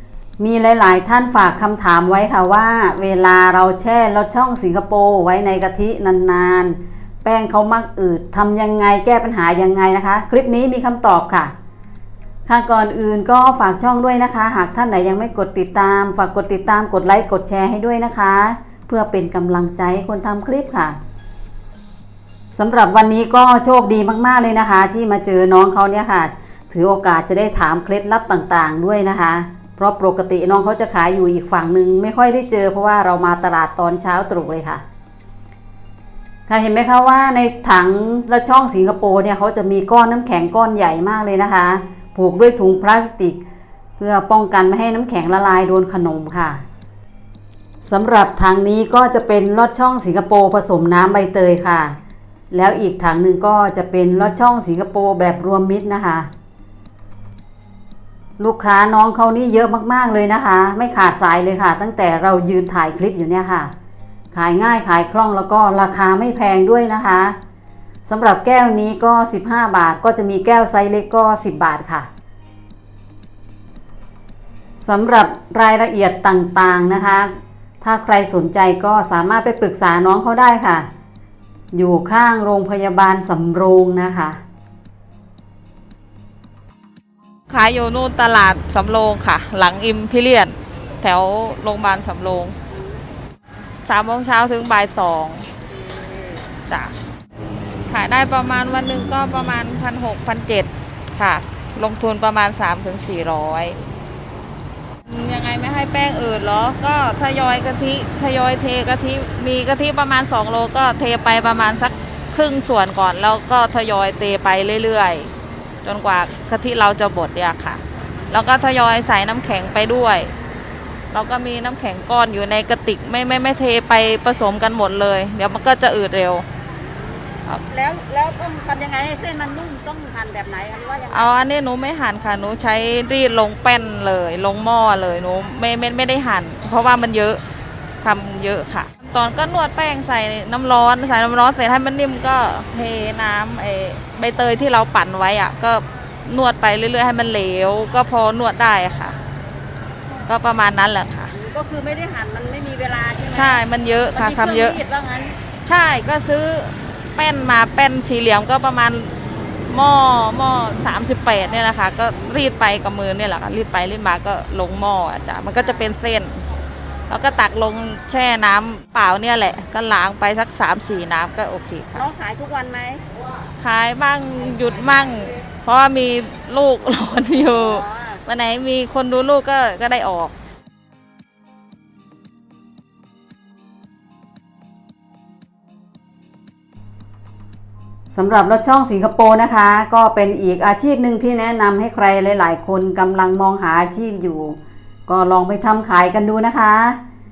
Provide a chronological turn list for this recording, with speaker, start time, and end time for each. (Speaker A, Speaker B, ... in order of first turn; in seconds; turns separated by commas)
Speaker A: 0.4-11.5, Speaker A: 12.4-21.0, Speaker A: 22.5-34.8, Speaker A: 36.5-43.4, Speaker A: 44.0-46.6, Speaker A: 47.8-52.0, Speaker A: 52.5-56.3, Speaker A: 58.4-63.7, Speaker A: 64.3-67.3, Speaker A: 68.0-72.1, Speaker A: 74.8-80.9, Speaker A: 81.7-84.4, Speaker B: 87.5-92.5, Speaker B: 93.8-95.5, Speaker C: 95.8-96.4, Speaker B: 96.7-96.9, Speaker B: 97.9-103.8, Speaker B: 105.0-115.3, Speaker B: 115.8-120.3, Speaker B: 121.1-126.5, Speaker C: 127.6-131.3, Speaker B: 131.1-137.4, Speaker B: 138.0-149.2, Speaker B: 150.2-151.3, Speaker C: 151.3-153.6, Speaker B: 153.3-154.8, Speaker C: 154.1-155.3, Speaker B: 155.6-166.4, Speaker B: 167.1-172.1, Speaker C: 171.9-173.0, Speaker B: 173.6-180.3, Speaker C: 177.7-178.2, Speaker A: 188.1-197.0